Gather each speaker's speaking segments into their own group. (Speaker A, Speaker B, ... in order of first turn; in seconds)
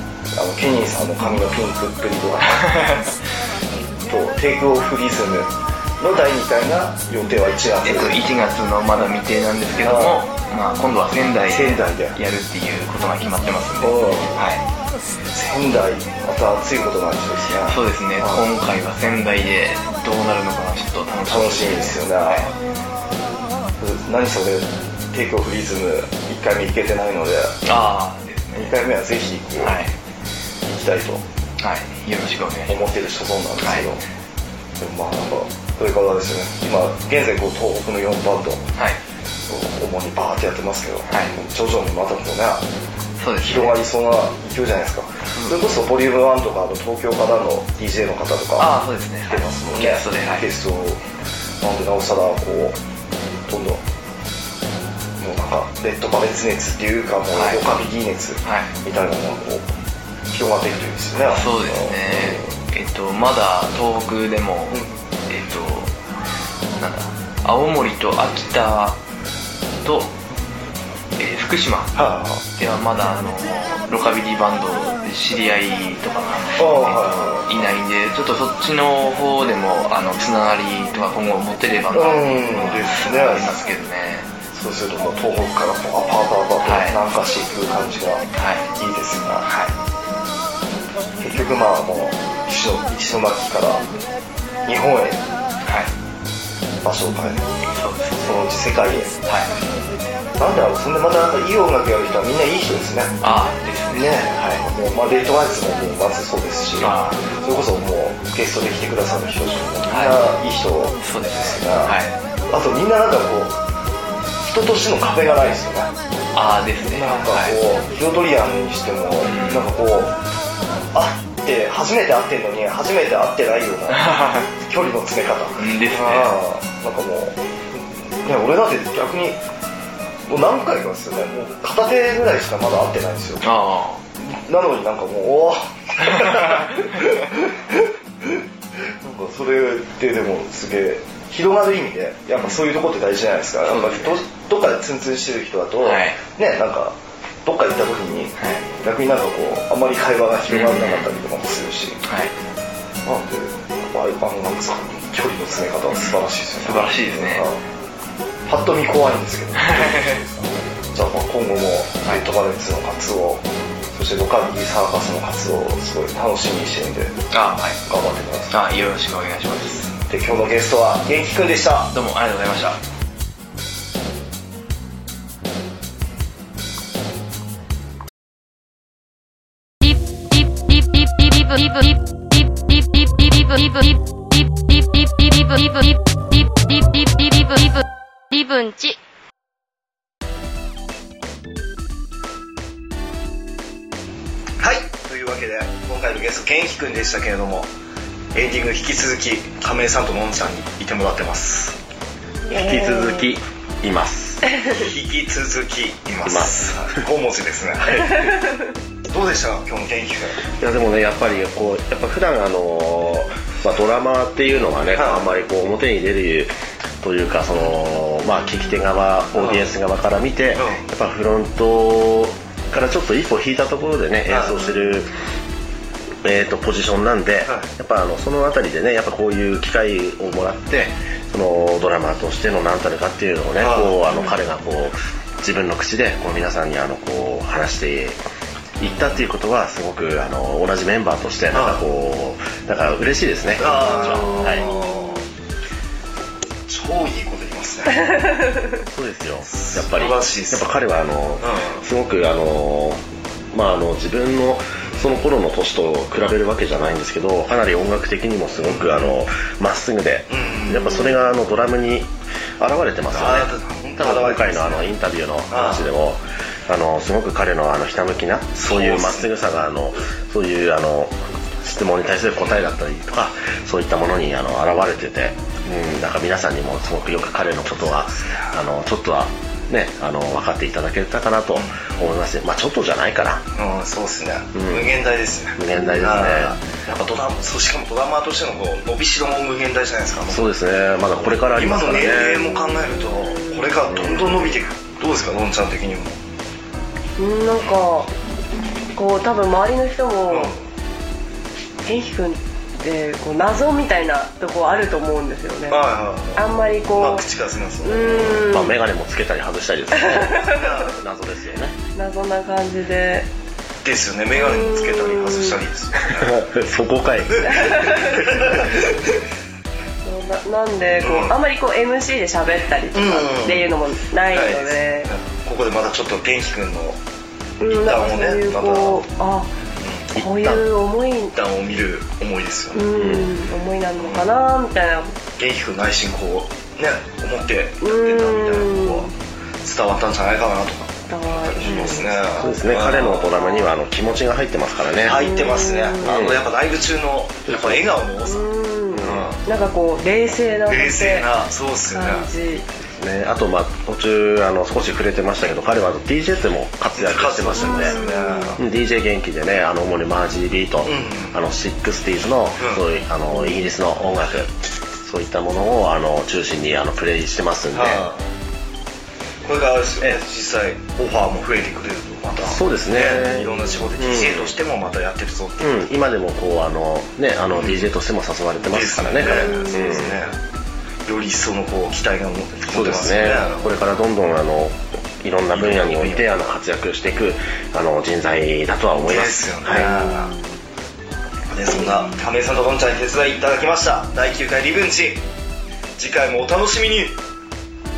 Speaker A: 0.3-3.0, 4.0-8.2, 9.8-10.2, 11.5-12.2, 13.8-14.4, 15.3-18.4, 21.3-22.5, 23.8-27.6, 28.5-29.8, 30.6-31.2, 32.7-34.0, 34.8-38.7, 39.5-42.7, 43.4-51.0, 51.6-52.8, 53.5-53.8, 55.2-59.7, 60.3-62.5, 72.0-72.4, 76.5-77.6, 81.9-83.6, 84.5-89.5, 91.2-93.9, 94.6-95.2, 96.8-97.5, 98.2-99.2, 100.4-103.2, 103.9-112.0, 112.5-113.6, 114.4-115.9, 116.8-120.2, 120.9-127.4, 128.2-129.4, 130.3-133.4, 134.2-152.0, 153.0-157.6, 158.4-167.2, 167.8-168.7, 170.0-171.9, 194.6-197.7, 198.3-201.8, 204.6-208.4, 209.1-210.4, 214.9-215.3, 224.3-224.6, 233.6-234.1, 241.5-241.8, 243.6-245.2, 246.7-248.4, 249.5-250.7, 251.4-251.8, 258.6-259.2, 260.3-261.1, 263.1-264.9, 265.5-265.8, 268.6-269.3, 278.0-278.5, 281.5-281.8, 283.5-290.5, 291.5-296.2, 300.3-300.6, 305.7-308.5, 310.3-311.0, 313.8-316.4, 317.3-319.1, 320.9-321.4, 322.9-323.7, 324.3-327.0, 327.7-329.0, 331.3-333.1, 334.0-334.3, 335.4-339.1, 339.6-343.4, 345.0-348.4, 349.0-349.4, 350.7-352.3, 356.9-358.6, 360.8-361.3, 367.7-368.2, 369.4-375.8, 377.6-377.8, 378.6-380.4, 381.1-383.7, 385.5-386.3, 389.1-390.4, 391.5-395.2, 396.0-397.2
Speaker B: 2.5-3.1, 7.8-14.6, 17.7-22.5, 27.6-28.7, 29.6-29.9, 31.6-32.9, 33.6-33.9, 43.2-43.8, 45.2-45.5, 48.6-50.5, 57.3-57.6, 58.4-58.7, 61.3-65.9, 66.8-69.0, 69.8-70.1, 71.2-72.0, 72.5-84.3, 86.6-87.0, 88.3-88.6, 89.4-89.7, 95.6-95.9, 97.8-98.4, 99.2-99.5, 103.2-104.7, 106.8-107.2, 109.9-110.2, 111.0-112.1, 116.3-117.6, 119.2-119.7, 123.9-124.5, 125.6-126.3, 133.4-134.0, 136.0-136.5, 142.3-142.6, 143.7-144.2, 145.8-146.2, 148.4-148.6, 150.5-151.1, 152.0-152.3, 155.9-157.5, 159.6-160.2, 167.3-167.8, 168.5-169.9, 171.9-172.8
Speaker C: 179.8-189.0
Speaker D: 202.5-203.2, 292.2-293.8, 297.2-298.1, 298.9-300.5, 301.8-307.2, 307.8-308.7, 309.9-310.7, 311.9-313.3, 314.4-315.6, 317.5-318.3, 320.0-325.1, 327.6-329.5, 330.1-331.4, 332.7-335.2, 337.8-339.1, 341.1-342.5, 345.1-346.3, 348.3-351.3, 351.9-352.7, 357.6-358.6, 379.4-379.7, 389.7-390.4
Speaker E: 202.5-204.6, 206.2-206.5, 210.6-225.1, 226.2-238.2, 238.8-244.7, 248.8-253.0, 253.5-283.4, 284.5-284.9, 285.6-286.6, 290.3-292.4, 293.9-294.6, 308.2-311.8, 316.1-318.1, 330.1-330.6, 332.9-333.3, 342.4-345.5, 346.0-346.4, 347.4-347.9, 348.9-349.3, 352.9-358.0, 358.6-368.0, 372.4-374.5, 375.6-380.1, 382.7-389.9